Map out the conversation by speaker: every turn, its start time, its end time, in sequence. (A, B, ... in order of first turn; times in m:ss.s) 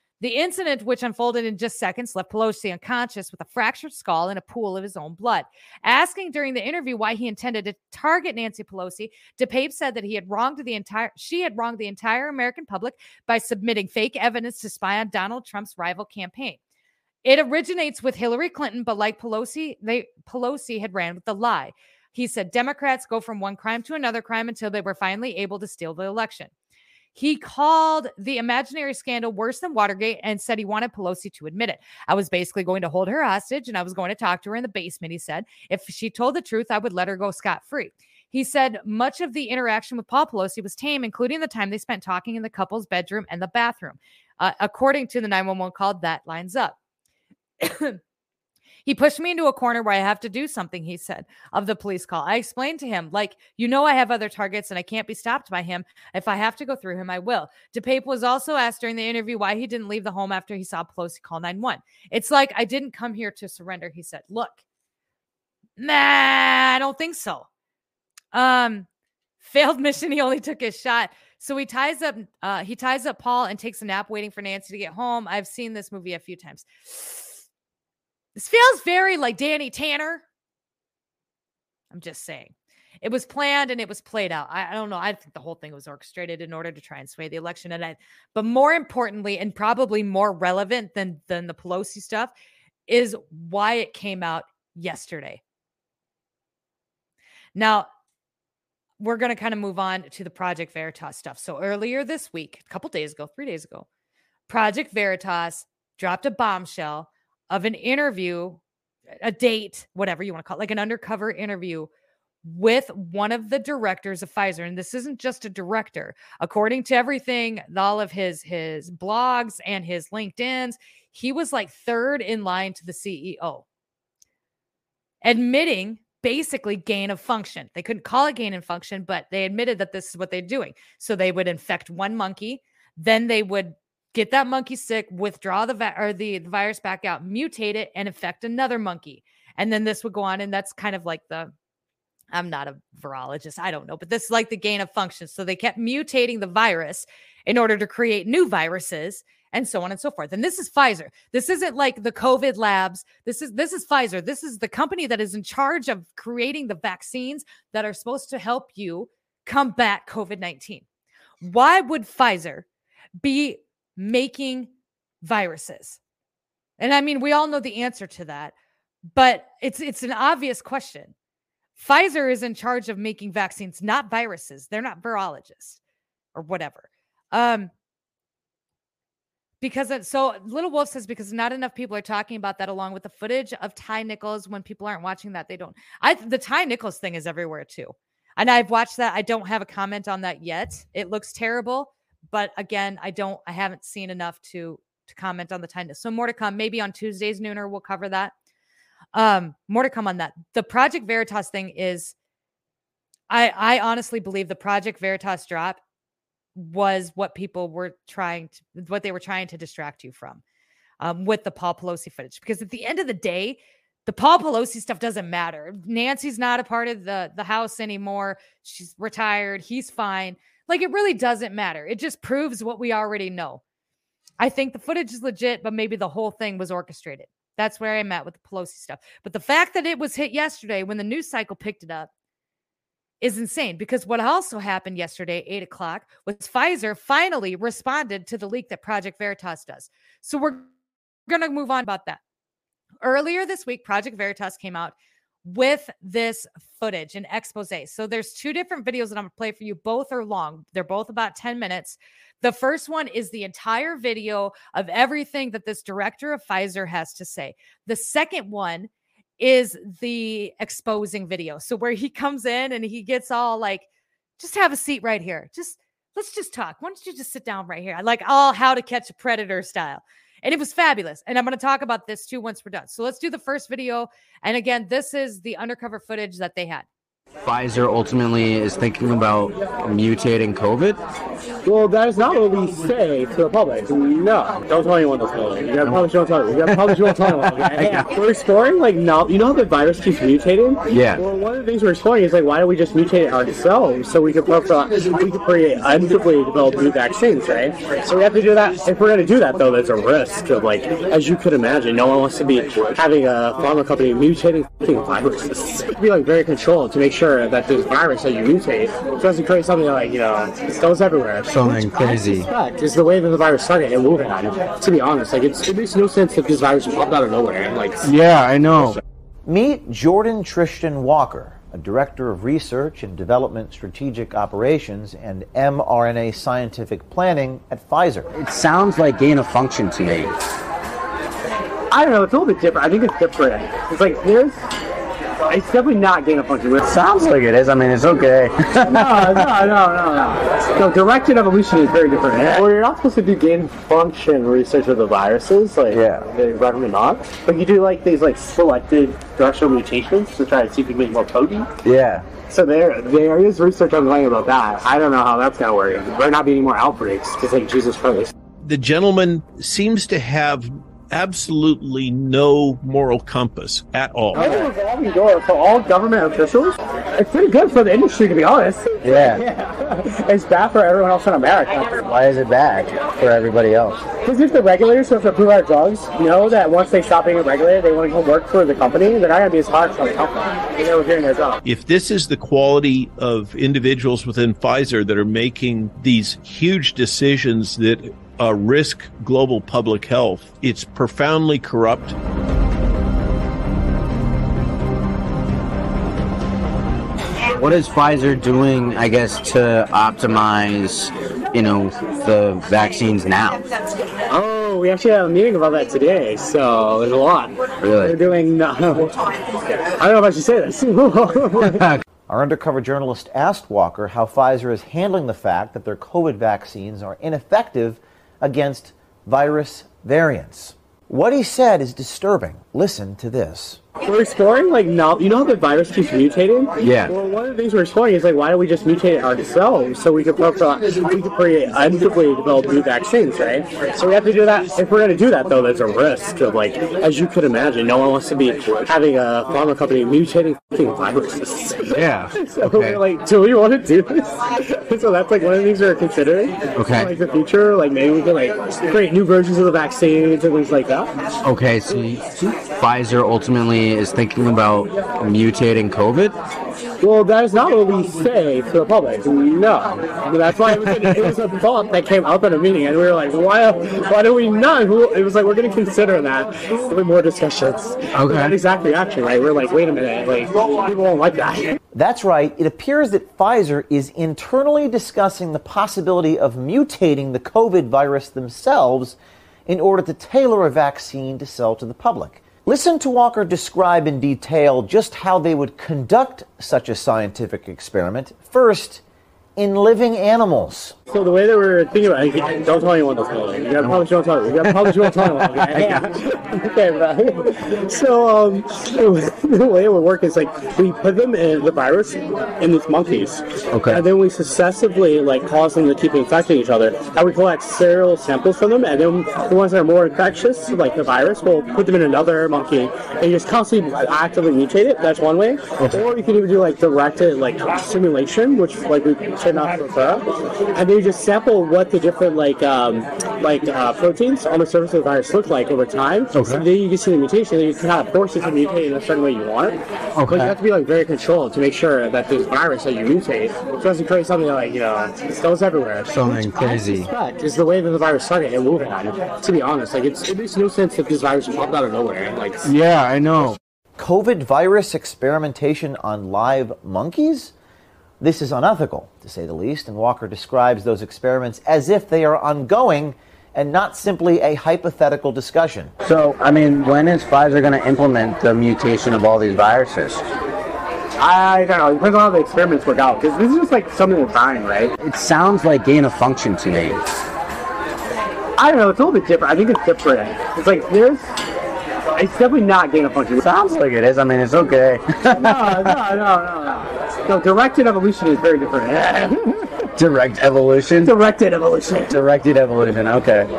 0:00.2-0:16.6 A
0:17.2-0:26.5 A
0:27.2-0:46.8 A
0:47.6-0:48.0 A
0:48.8-1:04.6 A
1:05.8-1:07.5 A
1:08.3-1:08.9 A
1:09.4-1:17.4 A
1:18.4-1:20.2 A
1:21.9-1:32.3 A
1:32.9-1:35.4 A
1:37.6-1:37.9 A
1:39.0-1:43.9 A
1:44.5-1:48.6 A
1:49.2-1:51.9 A
1:52.4-2:03.6 A
2:05.2-2:21.5 A
2:22.3-2:40.8 A
2:41.4-2:42.6 A
2:43.2-2:44.7 A
2:45.2-2:46.0 A
2:46.8-2:48.5 A
2:49.1-2:51.1 A
2:51.8-2:55.8 A
2:56.4-2:57.7 A
2:59.6-3:18.3 A
3:19.1-3:22.2 A
3:23.3-3:25.8 A
3:26.6-3:30.4 A
3:31.0-3:43.6 A
3:44.4-3:52.1 A
3:53.2-4:00.7 A
4:01.3-4:02.2 A
4:03.0-4:23.9 A
4:24.4-4:36.9 A
4:37.4-4:41.0 B
4:41.6-5:18.0 C
4:46.7-4:48.1 B
4:50.9-4:51.2 B
5:11.5-5:12.5 B
5:18.0-5:19.0 B
5:19.5-5:28.3 D
5:28.3-5:30.3 B
5:31.9-5:34.6 C
5:35.5-5:36.8 C
5:36.8-5:39.5 B
5:38.9-5:51.7 C
5:45.9-5:46.3 B
5:51.8-5:52.3 B
5:52.5-5:58.3 C
5:58.6-6:04.4 E
6:04.3-6:12.0 C
6:04.3-6:04.7 B
6:09.0-6:09.4 B
6:12.0-6:14.1 B
6:14.2-6:21.6 C
6:21.6-6:32.2 E
6:37.6-6:43.6 B
6:44.3-6:49.2 C
6:47.8-6:48.2 B
6:49.7-6:51.8 C
6:52.3-7:03.8 D
7:04.0-7:31.1 C
7:06.8-7:07.1 B
7:21.9-7:23.0 B
7:26.8-7:27.1 B
7:31.4-7:36.4 B
7:37.0-7:51.8 C
7:40.8-7:41.2 B
7:48.2-7:48.5 B
7:51.9-7:59.2 D
7:59.7-8:09.0 D
8:09.6-8:11.0 D
8:11.1-9:02.7 C
8:23.7-8:24.0 B
8:46.3-8:46.7 B
8:50.2-8:50.6 B
8:56.1-8:57.1 B
9:02.6-9:03.6 B
9:04.0-9:07.5 D
9:08.2-9:16.0 D
9:16.0-9:20.2 B
9:21.2-9:24.9 C
9:25.0-9:27.0 B
9:28.6-9:31.3 C
9:32.2-9:33.4 C
9:33.4-9:36.0 B
9:35.4-9:39.6 C
9:40.0-9:41.2 B
9:41.0-9:42.2 C
9:42.1-9:43.5 B